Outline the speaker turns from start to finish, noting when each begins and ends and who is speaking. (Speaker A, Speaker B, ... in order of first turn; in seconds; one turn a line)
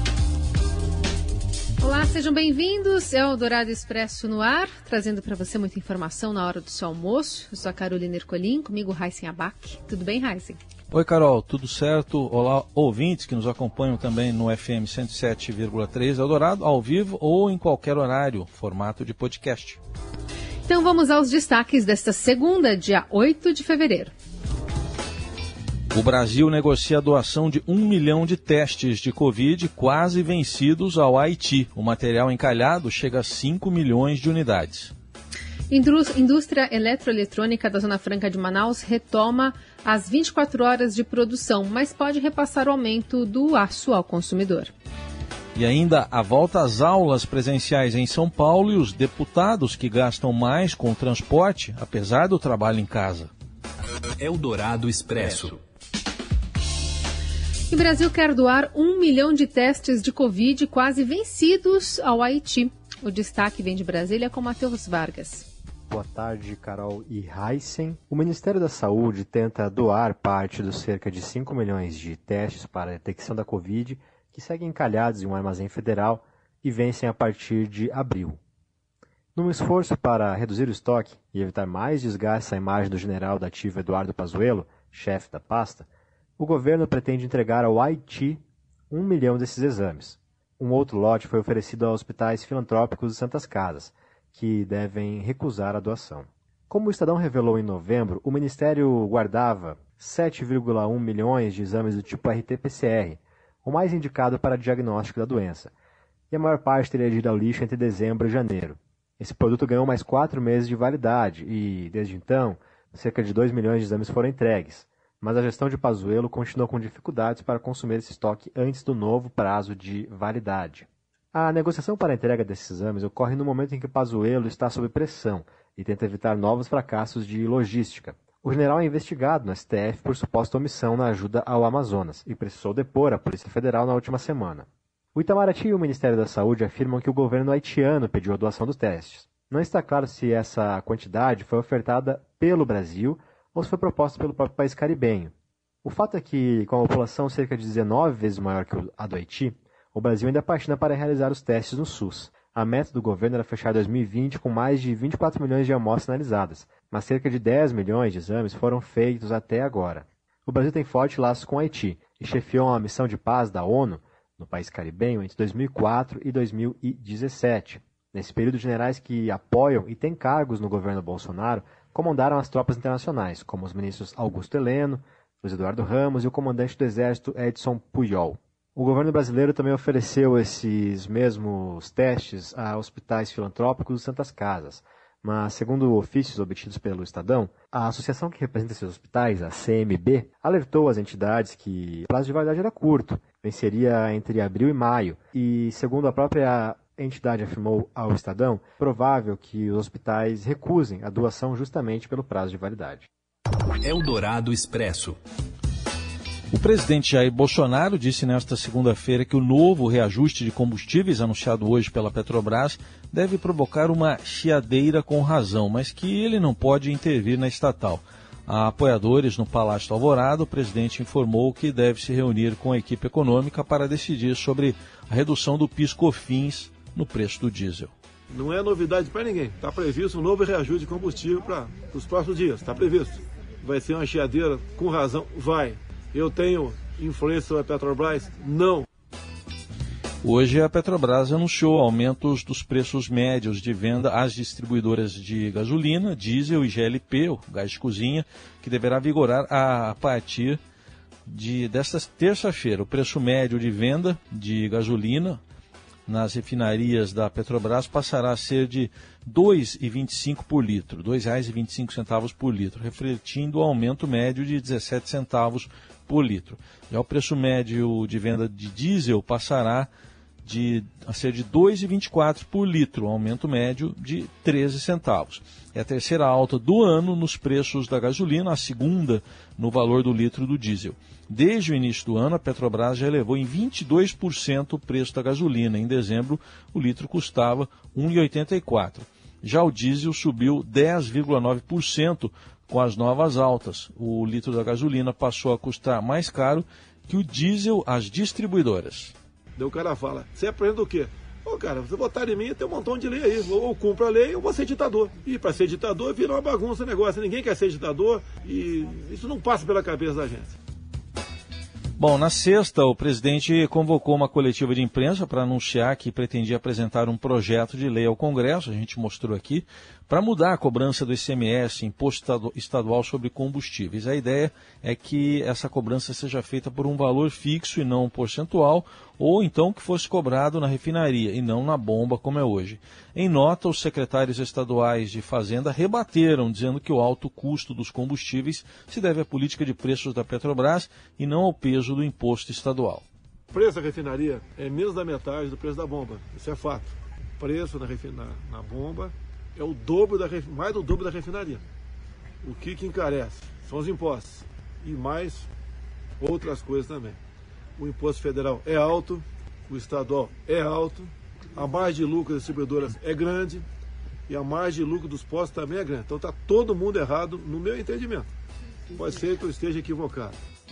Speaker A: 1.8-10.6
Speaker B: 10.9-19.8
Speaker A: 20.7-24.1
Speaker B: 25.9-34.9
Speaker A: 35.7-44.7
Speaker B: 45.5-53.3
Speaker C: 54.2-55.6
Speaker A: 57.7-65.5
Speaker D: 65.9-78.4
Speaker D: 79.4-85.9
Speaker D: 86.4-105.7
Speaker D: 106.3-145.3
Speaker D: 145.8-203.1
Speaker C: 203.8-205.2
Speaker B: 206.5-227.9
Speaker E: 228.3-238.9
Speaker B: 240.2-250.6
Speaker B: 251.2-255.4
Speaker B: 256.1-269.9
Speaker B: 270.4-299.1
Speaker E: 299.6-310.6
Speaker B: 312.0-343.1
Speaker E: 343.5-351.6
Speaker E: 352.4-355.5
Speaker E: 356.2-357.2
Speaker E: 357.8-363.6
Speaker E: 364.3-368.3
Speaker E: 368.9-370.4